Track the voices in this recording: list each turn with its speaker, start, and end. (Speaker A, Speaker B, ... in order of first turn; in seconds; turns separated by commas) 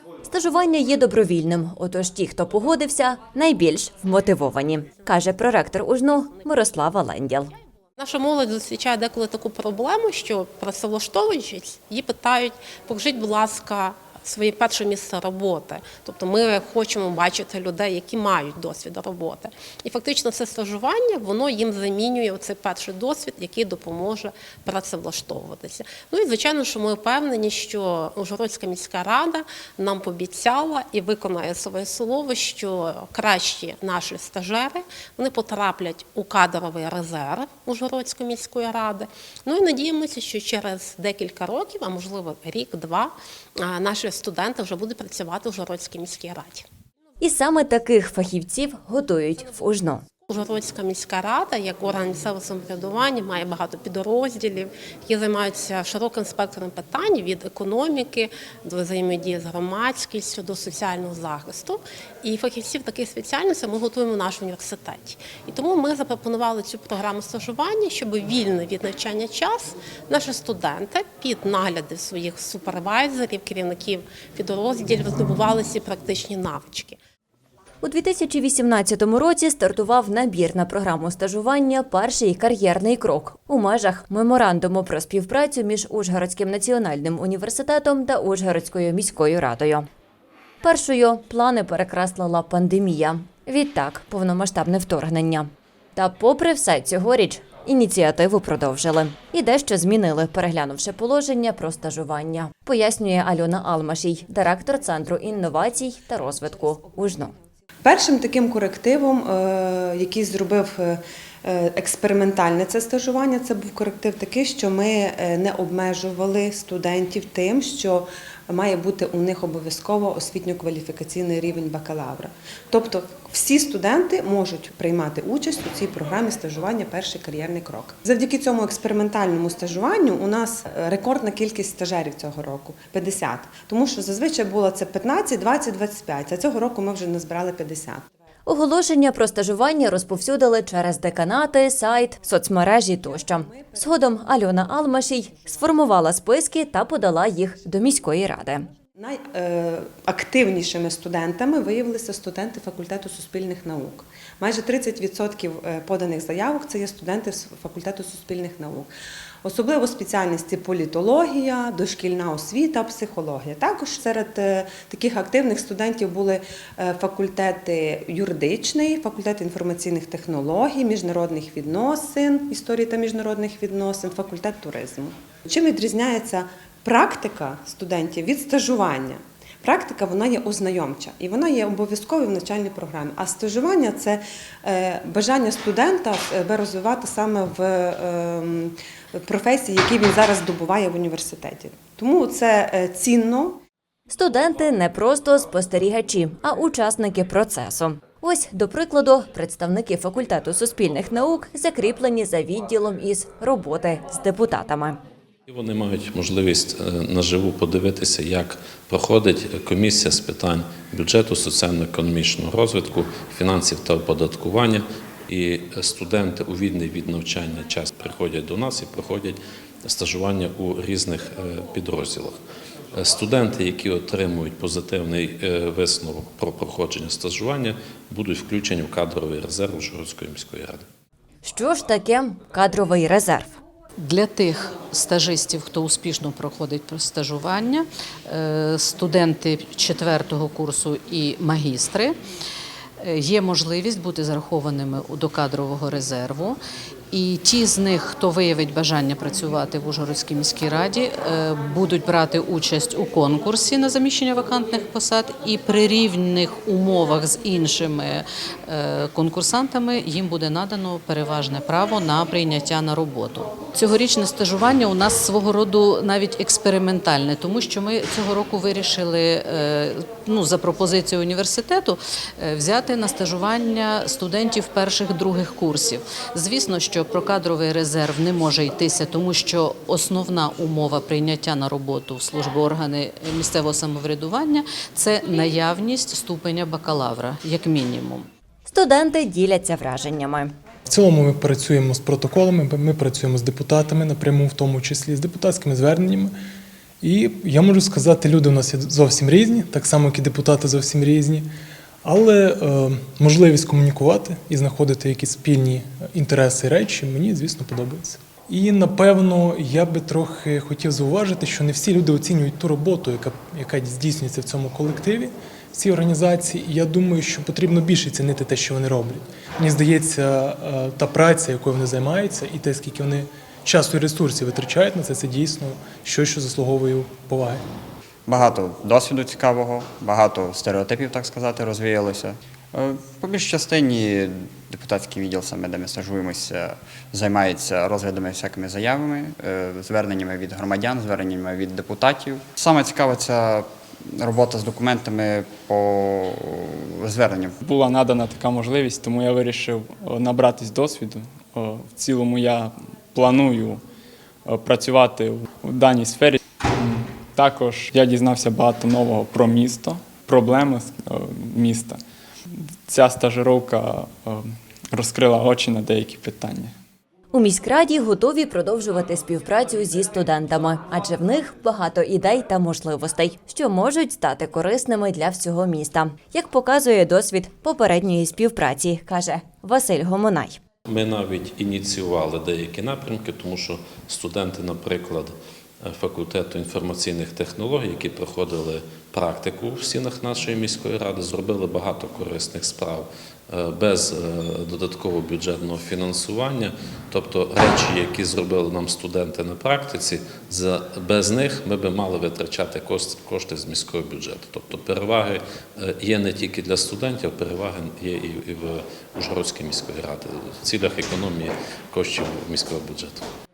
Speaker A: 0.3-7.5, Speaker B: 8.0-43.1, Speaker B: 43.6-46.6, Speaker A: 47.2-50.0, Speaker B: 50.4-77.0, Speaker A: 77.8-89.9, Speaker A: 90.6-107.3, Speaker C: 107.8-138.0, Speaker A: 138.5-148.7, Speaker C: 143.5-143.8, Speaker C: 149.0-158.9, Speaker C: 159.4-193.6, Speaker A: 194.1-205.0, Speaker D: 205.5-222.4, Speaker D: 222.9-230.8, Speaker A: 231.4-233.6, Speaker E: 234.0-242.2, Speaker E: 243.0-246.6, Speaker E: 247.1-288.3, Speaker A: 288.6-290.5, Speaker F: 290.9-296.3, Speaker F: 297.0-301.5, Speaker F: 302.0-327.6, Speaker G: 328.3-347.6, Speaker H: 347.6-353.8, Speaker H: 354.4-362.0, Speaker H: 362.5-366.7, Speaker A: 367.3-380.6, Speaker D: 380.9-413.2